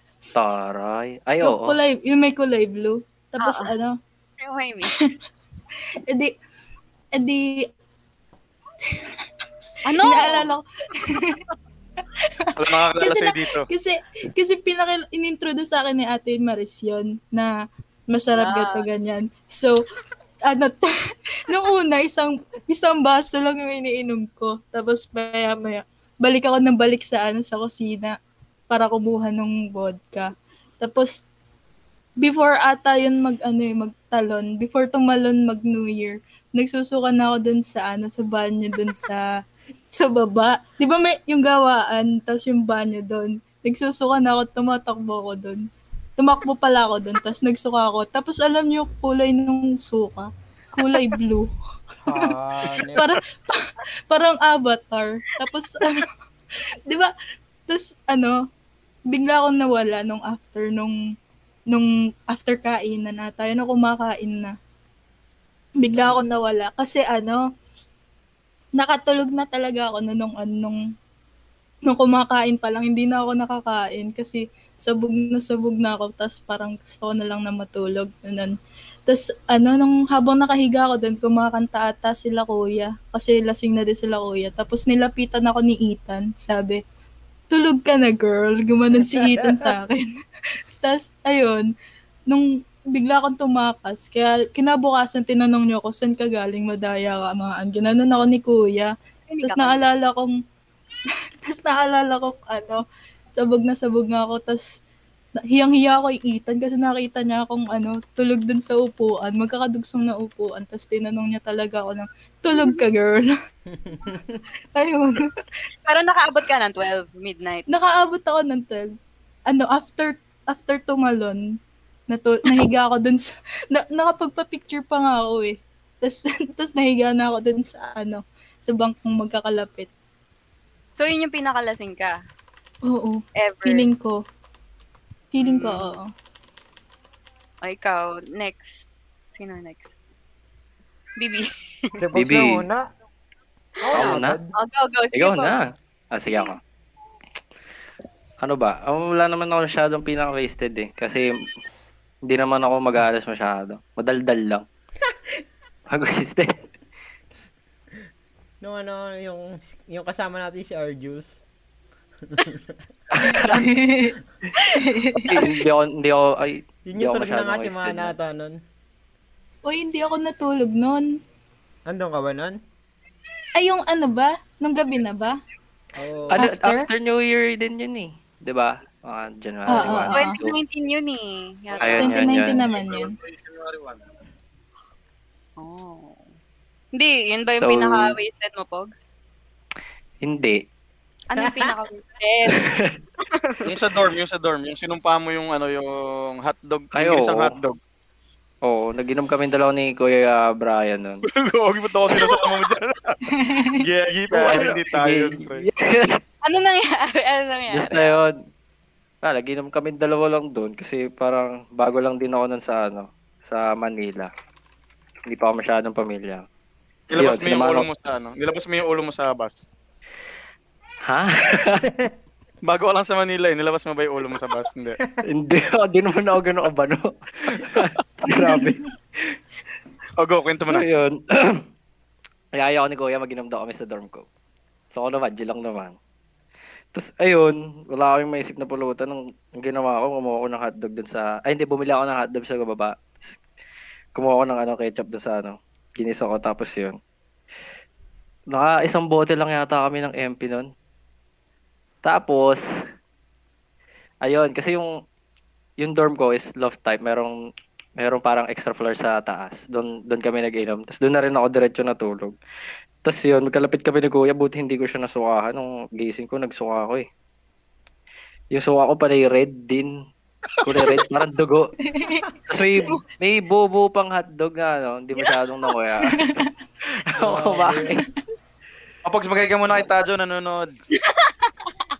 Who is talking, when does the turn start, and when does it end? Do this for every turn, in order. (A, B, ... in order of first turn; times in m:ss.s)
0:00.3-0:01.8 A
0:01.4-0:04.0 B
0:03.4-0:03.8 C
0:04.4-0:04.9 C
0:06.1-0:06.3 B
0:07.2-0:07.7 B
0:09.9-0:10.6 C
0:10.0-0:11.4 B
0:12.2-0:17.5 B
0:12.6-0:13.7 D
0:18.1-0:19.8 B
0:18.3-0:18.9 C
0:20.5-0:28.2 B
0:28.7-0:31.2 B
0:32.2-0:39.3 B
0:39.9-0:45.6 B
0:46.2-0:51.5 B
0:52.0-0:53.2 E
0:53.0-0:56.1 B
0:56.9-0:57.1 B
0:57.7-0:58.4 B
0:59.1-1:01.0 B
1:01.7-1:04.6 B
1:05.8-1:07.4 B
1:08.8-1:10.8 B
1:11.9-1:18.6 B
1:19.1-1:26.8 B
1:27.5-1:30.1 B
1:29.0-1:29.7 E
1:30.8-1:31.7 B
1:32.3-1:40.4 B
1:39.3-1:39.8 C
1:41.4-1:42.8 B
1:43.4-1:44.8 B
1:45.4-1:53.3 B
1:52.5-1:52.8 C
1:53.7-1:54.4 E
1:54.8-1:55.3 B
1:55.8-1:57.7 C
1:57.7-1:59.0 B
1:59.5-2:01.6 B
2:02.1-2:09.9 B
2:11.0-2:12.2 C
2:12.9-2:14.2 B
2:13.4-2:13.9 C
2:15.3-2:16.0 B
2:15.4-2:15.9 C
2:17.6-2:20.0 C
2:21.2-2:22.0 C
2:22.0-2:22.8 E
2:22.2-2:22.7 A
2:23.8-2:24.5 E
2:23.9-2:25.6 C
2:23.9-2:24.4 A
2:25.1-2:26.6 A
2:28.4-2:31.3 A
2:32.3-2:34.6 A
2:35.9-2:36.5 A
2:38.6-2:41.4 E
2:42.2-2:42.8 E
2:43.1-2:43.7 A
2:43.3-2:44.2 B
2:44.8-2:45.3 B
2:45.2-2:48.2 A
2:45.3-2:45.6 C
2:46.9-2:48.6 E
2:49.7-2:51.1 B
2:51.9-2:52.6 E
2:53.6-2:55.3 B
2:55.9-2:56.5 E
2:56.3-3:00.6 A
2:56.4-2:56.9 B
2:59.7-3:00.4 B
3:00.1-3:02.6 C
3:01.8-3:02.7 A
3:02.0-3:03.1 B
3:05.6-3:06.2 C
3:07.0-3:09.1 C
3:07.6-3:08.2 A
3:10.2-3:10.6 A
3:11.3-3:13.7 C
3:11.4-3:11.7 E
3:12.5-3:13.0 A
3:13.6-3:17.8 D
3:17.0-3:17.5 A
3:18.6-3:21.3 A
3:21.3-3:23.2 D
3:23.3-3:23.8 B
3:23.8-3:25.7 D
3:24.3-3:26.2 A
3:26.4-3:28.2 C
3:27.7-3:28.4 A
3:29.2-3:34.3 A
3:35.3-3:36.5 A
3:37.1-3:39.7 D
3:37.1-3:37.9 A
3:41.1-3:41.9 A
3:41.8-3:42.1 E
3:42.6-3:45.0 D
3:45.2-3:49.4 A
3:50.2-3:50.8 D
3:50.7-3:51.6 A
3:52.6-3:54.2 A
3:54.9-3:56.0 A
3:56.9-4:03.0 A
4:04.2-4:07.0 A
4:08.5-4:10.7 A
4:12.0-4:12.6 A
4:14.2-4:14.9 A
4:15.8-4:17.4 A
4:18.0-4:22.4 A
4:23.0-4:27.1 A
4:28.5-4:29.9 A
4:30.6-4:31.7 A
4:31.8-4:32.3 B
4:32.5-4:38.0 A
4:35.2-4:35.7 C
4:36.1-4:36.4 B
4:37.2-4:38.0 E
4:39.0-4:40.7 D
4:40.9-4:41.7 C